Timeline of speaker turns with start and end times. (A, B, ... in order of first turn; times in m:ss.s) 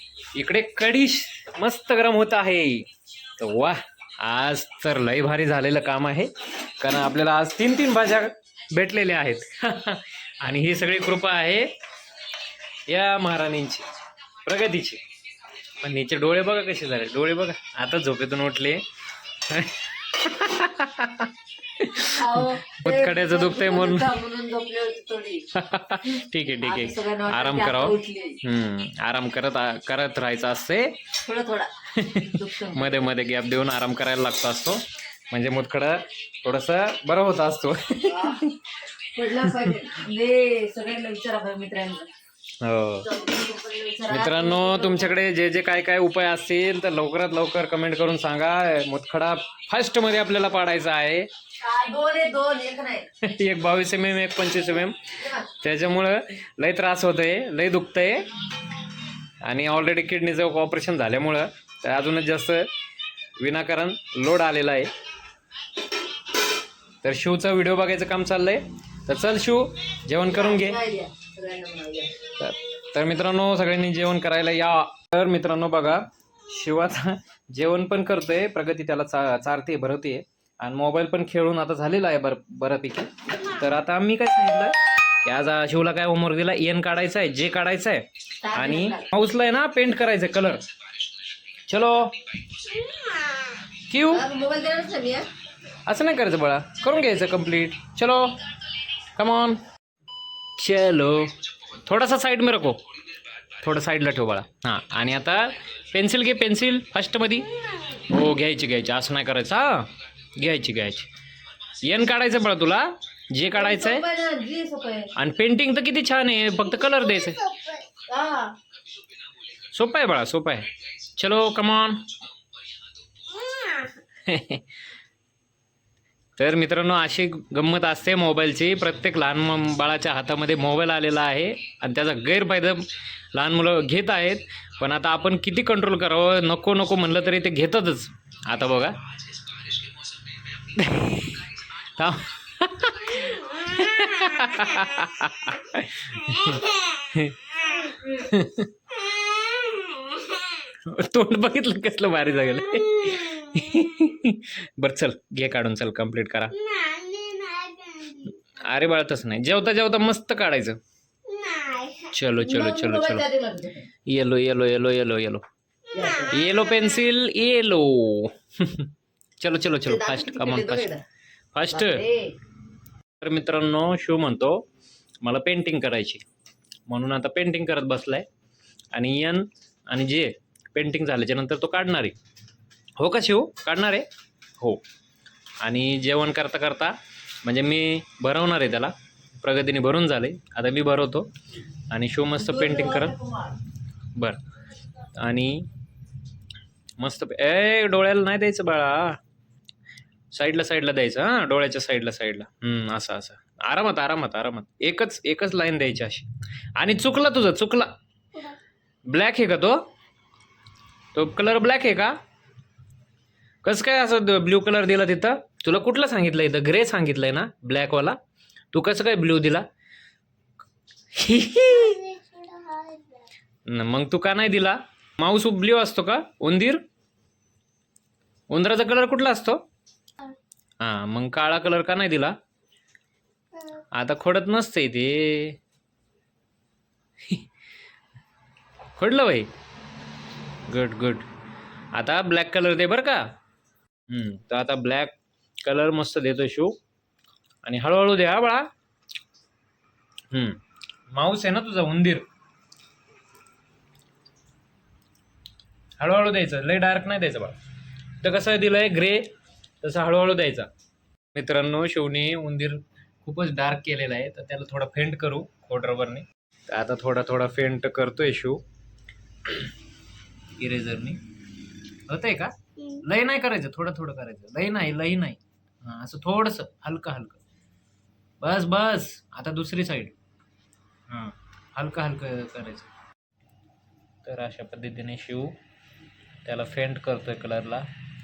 0:00.3-0:11.7 A
0:12.9-0:13.8 A
0:14.4-0:15.0 A
0:15.8-0:18.8 A
0:19.4-0:24.2 A
0:22.0-0:25.5 B
0:25.5-0:31.0 A
0:26.5-0:28.4 B
0:31.2-0:32.9 B
0:31.9-0:38.6 A
0:38.0-0:38.4 B
0:39.1-0:42.1 B
0:39.4-0:39.7 A
0:42.6-0:43.1 A
0:43.0-0:45.2 B
0:44.1-0:51.3 A
0:51.6-0:53.1 B
0:53.2-0:58.3 A
0:55.2-0:55.4 B
0:59.4-1:02.7 A
1:03.4-1:04.9 A
1:07.0-1:10.8 A
1:10.2-1:12.1 B
1:12.3-1:30.6 A
1:28.4-1:29.1 B
1:31.7-1:32.2 A
1:33.9-1:34.3 A
1:34.1-1:35.3 B
1:35.8-1:38.4 A
1:39.1-1:39.6 A
1:40.6-1:42.8 A
1:43.6-1:51.1 A
1:51.8-1:54.1 A
1:53.5-1:55.1 B
1:55.1-1:57.5 A
1:57.2-1:57.9 C
1:58.0-1:58.6 B
1:59.6-2:02.1 A
2:03.4-2:03.9 C
2:04.2-2:04.6 A
2:06.4-2:19.0 A
2:20.5-2:28.8 A
2:27.7-2:28.0 C
2:29.1-2:30.4 C
2:30.6-2:36.7 A
2:36.6-2:38.4 C
2:38.5-2:40.8 A
2:41.2-2:42.1 C
2:42.1-2:43.3 A
2:42.4-2:43.9 B
2:44.1-2:45.4 A
2:45.9-2:46.4 B
2:46.3-2:50.9 A
2:49.8-2:51.0 B
2:51.5-2:52.0 A
2:51.7-2:52.4 B
2:53.2-2:54.6 A
2:55.2-2:56.2 A
2:56.9-2:58.2 A
2:58.9-3:02.1 A
3:03.0-3:04.1 A
3:05.6-3:11.3 A
3:11.9-3:13.2 A
3:12.4-3:13.6 B
3:15.0-3:15.7 A
3:17.0-3:19.2 A
3:20.3-3:27.9 A
3:29.1-3:29.8 A
3:31.1-3:32.2 A
3:33.6-3:38.2 A
3:38.7-3:39.6 A
3:41.1-3:42.0 A
3:41.6-3:43.2 C
3:43.7-3:46.8 A
3:48.5-3:49.6 A
3:50.8-3:52.3 A
3:53.9-3:55.6 A
3:59.0-3:59.5 A
4:00.7-4:01.3 A
4:01.9-4:03.2 A
4:04.1-4:06.8 A
4:07.6-4:08.7 A
4:10.3-4:10.6 A
4:11.1-4:12.2 A
4:16.0-4:17.6 A
4:18.2-4:20.7 A
4:21.3-4:28.6 A
4:30.6-4:31.2 A
4:32.1-4:37.4 A
4:38.4-4:40.1 A
4:41.1-4:42.9 A
4:44.2-4:45.6 A
4:46.4-4:47.9 A